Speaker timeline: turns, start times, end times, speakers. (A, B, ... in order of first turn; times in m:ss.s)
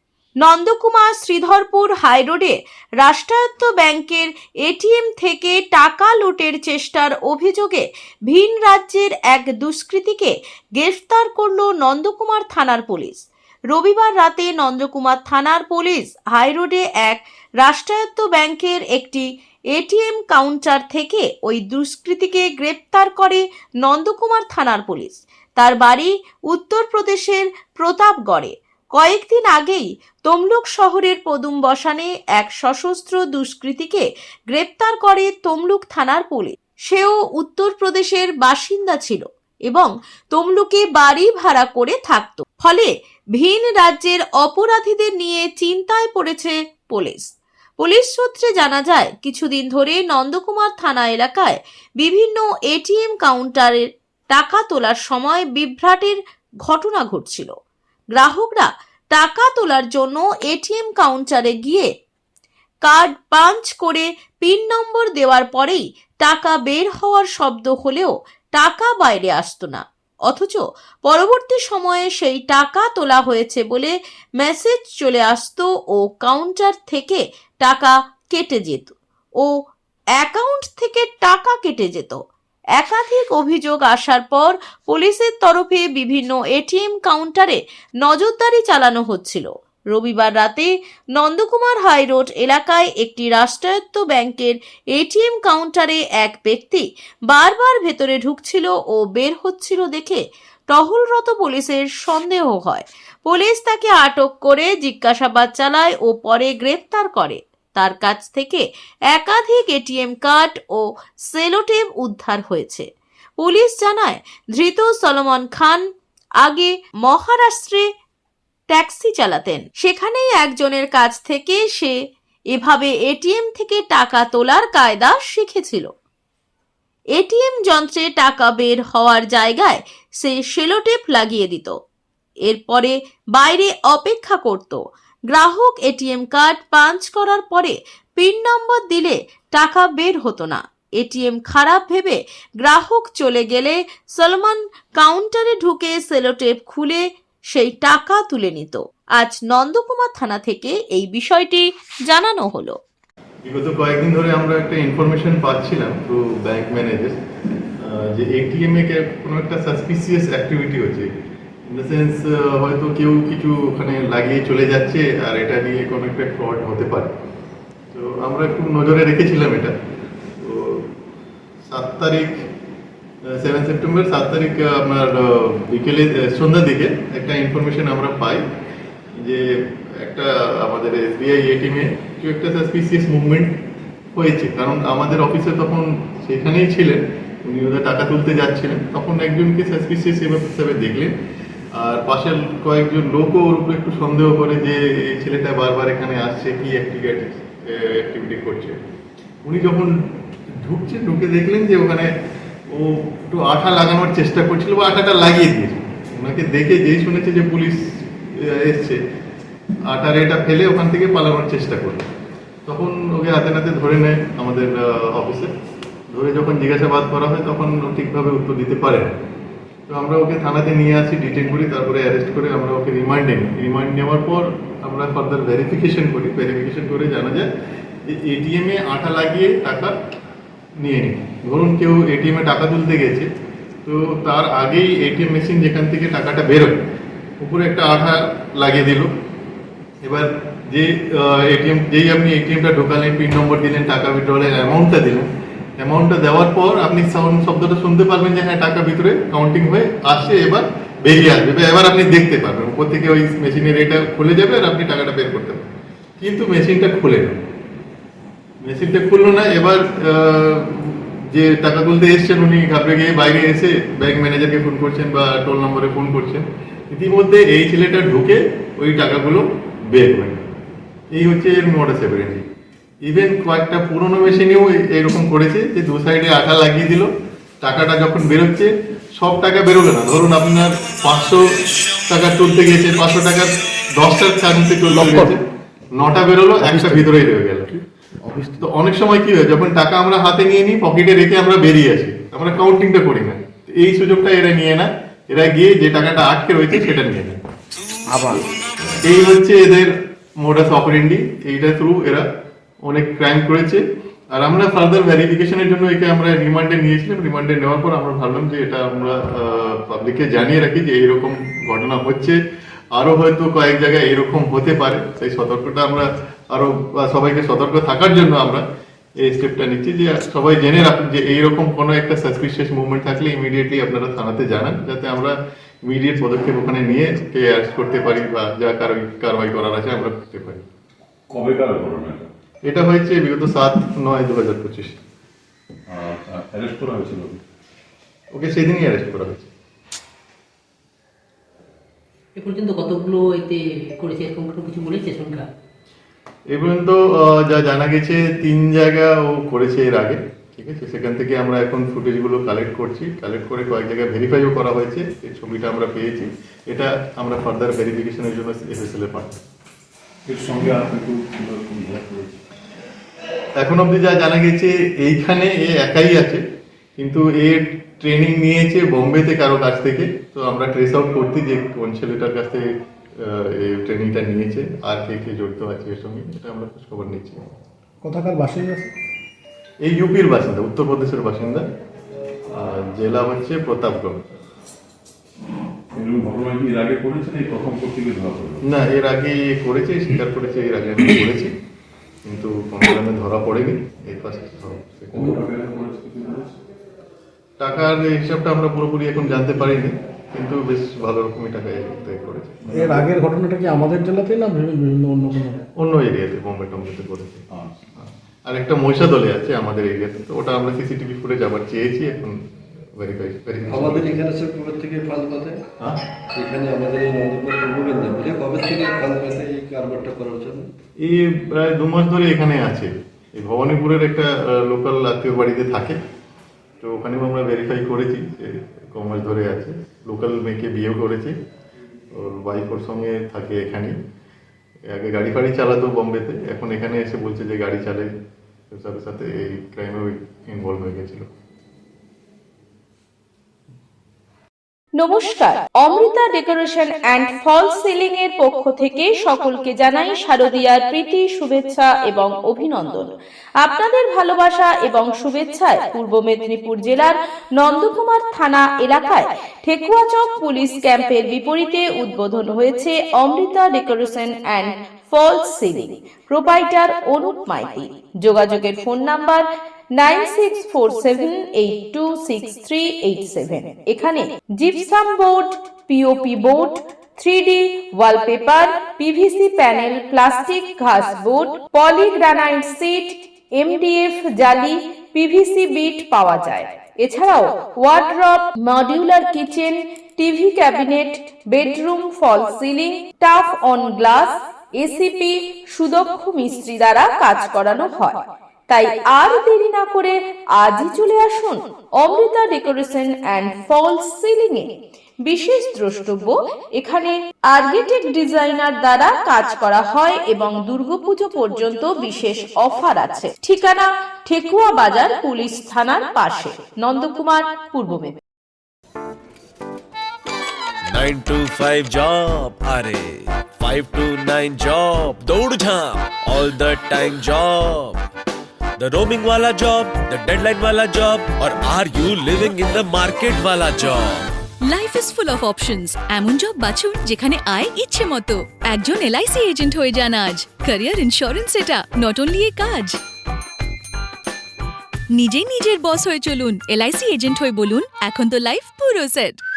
0:00.4-0:47.3 A
0:47.8-0:57.5 A
0:58.1-1:01.9 A
1:02.8-1:19.5 A
1:20.2-1:22.2 A
1:22.8-1:52.9 A
1:53.4-1:55.8 A
1:56.4-1:57.9 A
1:58.7-2:02.0 A
2:02.5-2:05.9 A
2:07.1-2:11.8 A
2:12.4-2:32.8 A
2:33.4-2:37.2 B
2:37.8-2:41.1 B
2:41.7-2:47.1 B
2:47.9-2:49.7 B
2:50.4-2:50.9 B
2:51.7-2:52.4 B
2:53.2-2:58.4 B
2:59.2-3:03.6 B
3:04.2-3:11.1 B
3:11.7-3:18.8 B
3:19.4-3:19.9 B
3:20.6-3:22.1 B
3:22.7-3:29.0 B
3:29.9-3:32.0 B
3:32.6-3:35.5 B
3:36.1-3:39.1 B
3:39.9-3:47.5 B
3:48.1-3:49.9 B
3:50.8-3:53.3 B
3:53.8-3:56.8 B
3:57.4-3:59.1 B
4:00.0-4:17.4 B
4:18.6-4:30.4 B
4:31.1-4:32.4 B
4:33.0-4:37.1 B
4:37.6-4:45.4 B
4:45.0-4:45.3 C
4:45.9-4:47.7 B
4:46.6-4:47.0 C
4:48.3-4:48.6 C
4:48.6-4:57.4 B
4:59.0-5:02.2 B
5:02.8-5:03.8 B
5:04.3-5:12.4 B
5:12.9-5:18.6 B
5:19.2-5:30.6 B
5:31.3-5:32.3 C
5:32.7-5:35.0 B
5:35.9-5:37.4 C
5:38.3-5:39.5 B
5:42.4-5:45.4 D
5:46.5-5:59.4 B
6:00.3-6:02.4 C
6:03.6-6:06.4 B
6:07.0-6:12.6 B
6:13.2-6:17.4 B
6:18.0-6:18.9 E
6:18.0-6:18.9 C
6:19.8-6:21.6 B
6:22.5-6:24.2 B
6:25.9-6:28.6 C
6:28.6-6:31.5 B
6:32.2-6:35.4 B
6:35.1-6:36.5 C
6:37.6-6:43.1 B
6:42.7-6:45.6 E
6:45.8-6:47.4 B
6:48.5-6:52.4 B
6:53.0-6:54.2 B
6:53.7-6:55.6 F
6:56.3-7:00.7 F
7:01.0-7:06.0 B
7:06.8-7:11.3 B
7:12.1-7:13.9 B
7:14.9-7:18.1 B
7:18.7-7:21.2 B
7:25.0-8:24.7 A
8:25.2-8:38.2 A
8:40.9-8:48.0 G
8:48.8-8:54.3 G
8:54.6-9:03.0 H
9:05.1-9:09.4 H